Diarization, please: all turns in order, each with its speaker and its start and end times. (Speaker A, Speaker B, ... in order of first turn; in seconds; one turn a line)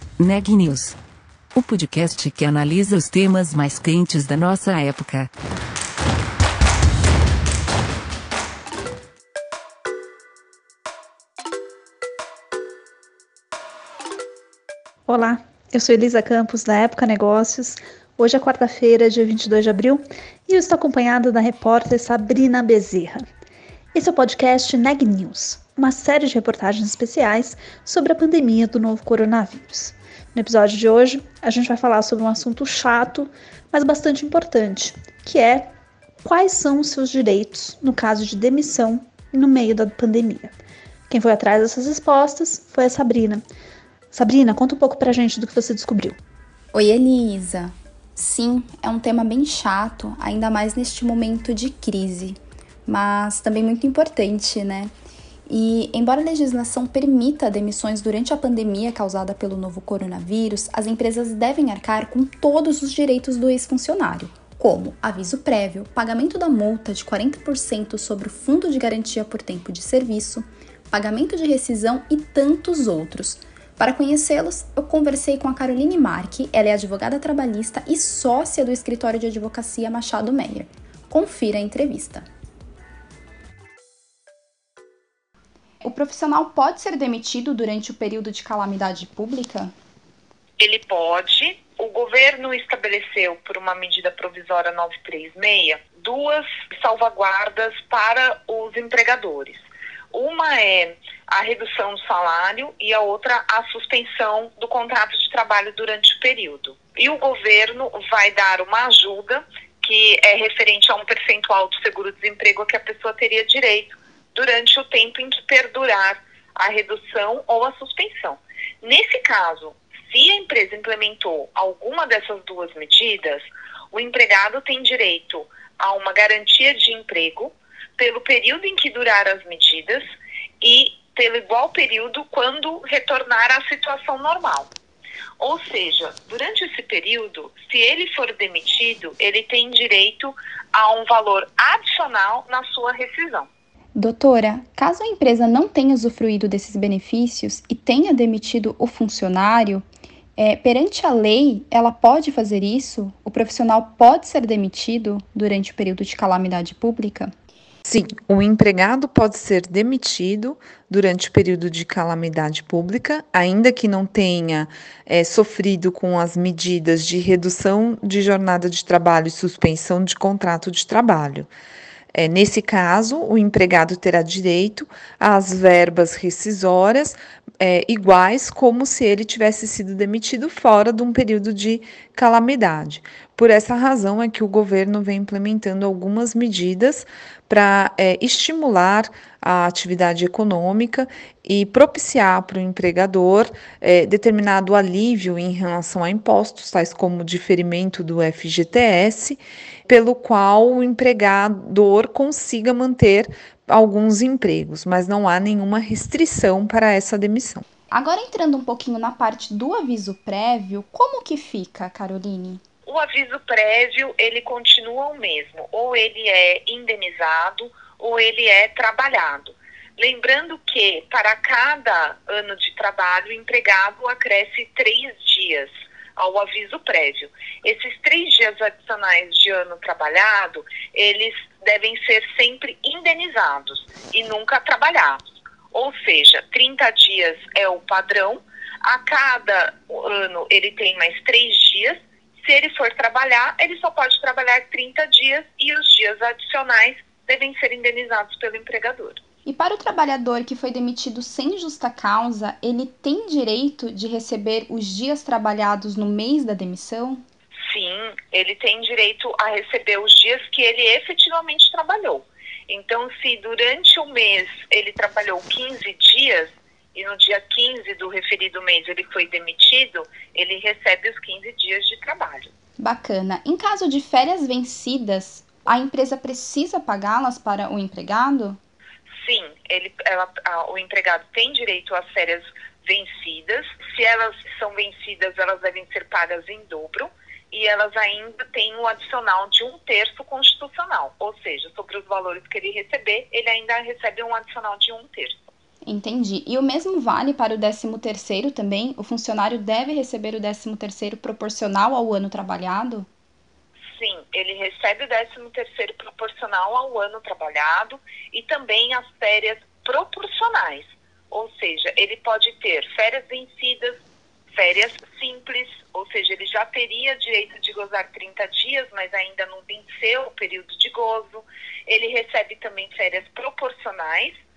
Speaker A: 0.2-1.0
Speaker A: 1.5-5.3
Speaker B: 15.1-23.2
Speaker B: 23.9-35.7
Speaker B: 36.2-40.6
Speaker B: 41.1-43.4
Speaker B: 44.1-46.1
Speaker C: 46.7-54.9
Speaker C: 55.5-82.2
Speaker C: 85.8-89.7
Speaker D: 90.6-130.0
Speaker D: 130.6-134.7
Speaker D: 135.4-143.5
Speaker C: 143.9-149.8
Speaker C: 150.4-157.3
Speaker E: 157.8-171.5
Speaker E: 172.1-207.6
Speaker C: 207.9-212.6
Speaker D: 212.8-235.2
Speaker D: 235.7-249.2
Speaker C: 249.4-257.2
Speaker D: 257.7-272.5
Speaker C: 272.8-278.6
Speaker D: 279.2-295.4
Speaker C: 295.8-303.1
Speaker D: 303.9-313.9
Speaker D: 314.5-324.4